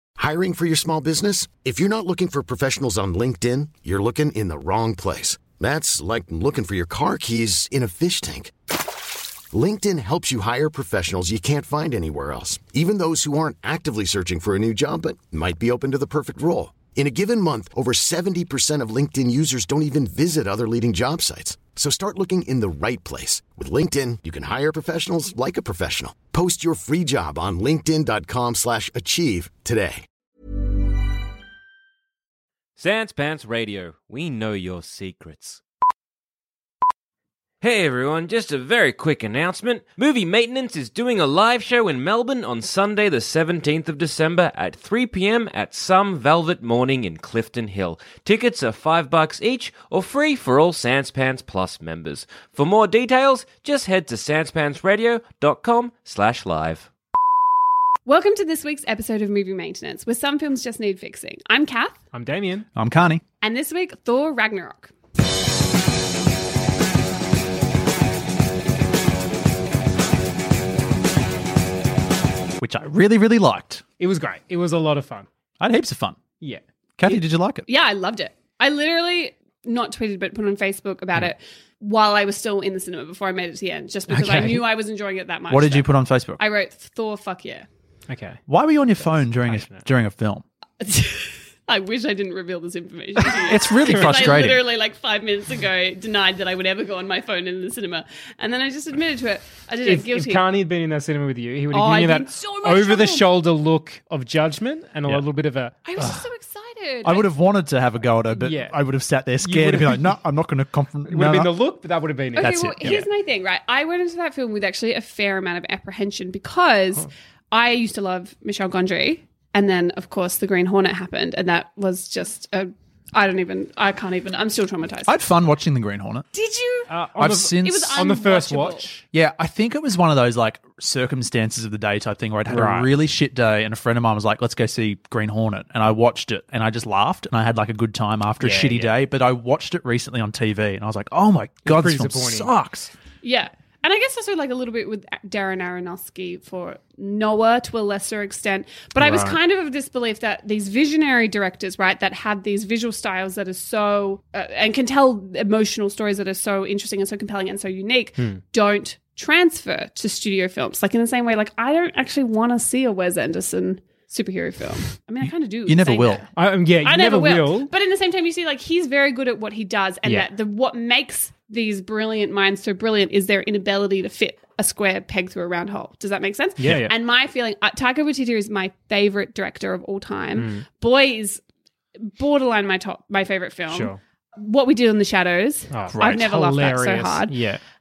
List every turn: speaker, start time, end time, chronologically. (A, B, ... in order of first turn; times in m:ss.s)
0:00.2-0:08.5 A
0:09.5-0:30.0 A
0:32.8-0:35.6 B
0:37.6-0:56.9 B
0:58.1-1:02.0 C
1:02.1-1:02.7 D
1:02.8-1:03.2 E
1:03.4-1:04.9 C
1:12.6-1:13.8 E
1:14.0-1:15.3 D
1:15.6-1:16.2 E
1:17.0-1:17.7 E
1:17.1-1:27.7 C
1:24.1-1:24.7 D
1:25.5-1:26.4 E
1:28.1-1:28.4 D
1:28.5-1:30.4 E
1:29.0-1:29.8 D
1:30.8-1:40.5 C
1:33.3-1:34.6 E
1:33.9-1:34.3 D
1:39.8-1:46.1 D
1:41.7-1:43.3 C
1:45.8-1:47.3 C
1:47.0-1:51.6 E
1:48.3-1:48.8 D
1:49.4-1:50.2 D
1:51.1-1:53.1 D
1:52.4-2:05.2 C
1:52.4-1:53.0 E
2:05.1-2:06.3 E
2:06.3-2:06.9 C
2:06.9-2:09.0 D
2:07.2-2:08.0 E
2:07.6-2:08.9 C
2:09.1-2:22.9 E
2:12.5-2:12.9 D
2:18.4-2:19.0 D
2:21.6-2:22.5 D
2:23.2-2:46.3 C
2:29.0-2:29.4 D
2:45.2-2:46.3 E
2:46.4-2:47.7 D
2:46.8-3:01.4 C
2:50.0-2:50.3 D
2:56.6-2:56.9 D
3:00.4-3:00.7 D
3:02.0-3:07.4 C
3:03.7-3:04.0 D
3:05.7-3:07.6 D
3:05.9-3:06.4 E